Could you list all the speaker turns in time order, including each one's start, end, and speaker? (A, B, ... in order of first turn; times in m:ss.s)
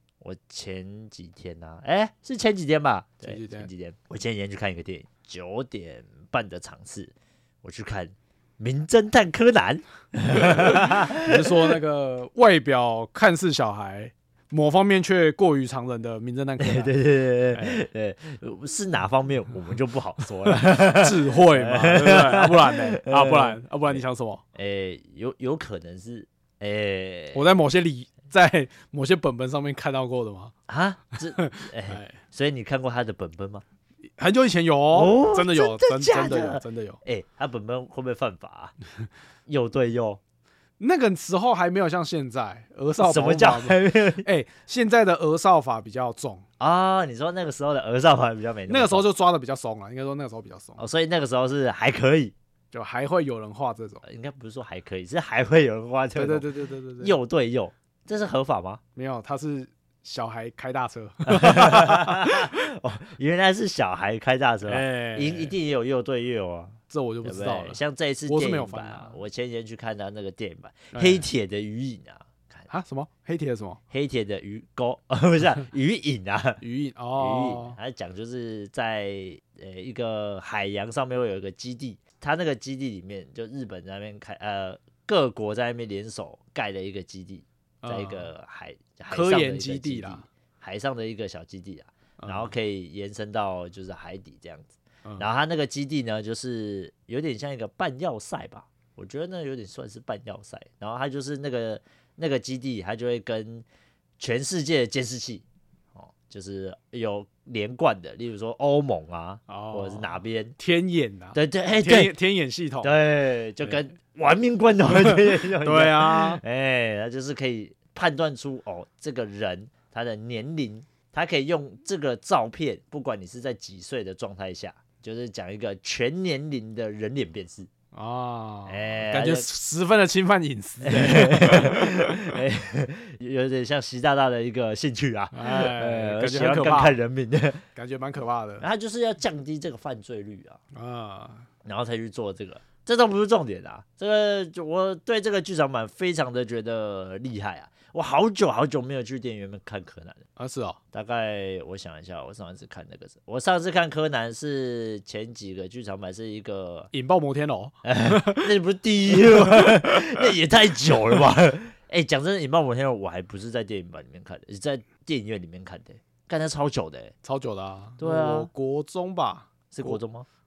0:00.2-0:11.7 A
0:03.2-0:03.7 B
0:10.3-0:16.9 B
0:16.6-0:24.0 A
0:17.5-0:17.8 B
0:20.5-0:24.4 B
0:24.5-0:27.5 A
0:27.3-0:30.5 B
0:30.7-0:33.6 A
0:31.4-0:32.2 B
0:34.2-0:37.0 B
0:34.9-0:38.7 A
0:39.5-0:40.2 A
0:40.8-0:46.4 B
0:43.0-0:44.2 A
0:46.6-0:49.0 A
0:48.7-0:50.8 B
0:50.8-0:52.3 A
0:52.7-0:54.0 B
0:54.0-0:56.5 A
0:56.1-0:57.2 B
0:57.0-0:58.8 A
0:59.0-1:02.5 B
1:01.2-1:12.7 A
1:04.6-1:05.5 B
1:06.9-1:09.2 B
1:10.9-1:11.2 B
1:12.7-1:13.8 B
1:13.9-1:16.6 A
1:16.6-1:17.8 B
1:17.2-1:43.6 A
1:27.8-1:28.3 B
1:29.1-1:30.2 B
1:32.2-1:32.5 B
1:44.2-1:50.5 A
1:49.5-1:52.9 B
1:51.3-1:52.2 A
1:52.8-2:07.7 A
1:54.9-1:56.4 B
2:07.9-2:11.8 B
2:08.7-2:09.4 A
2:10.8-2:17.6 A
2:15.3-2:16.9 B
2:17.7-2:18.6 B
2:18.6-2:20.6 A
2:20.7-2:21.5 B
2:21.6-2:30.2 A
2:30.4-2:30.8 B
2:30.9-2:36.9 A
2:36.9-2:38.5 B
2:37.8-2:47.1 A
2:39.1-2:40.2 B
2:47.2-2:50.0 B
2:48.0-2:48.5 A
2:49.7-2:50.2 A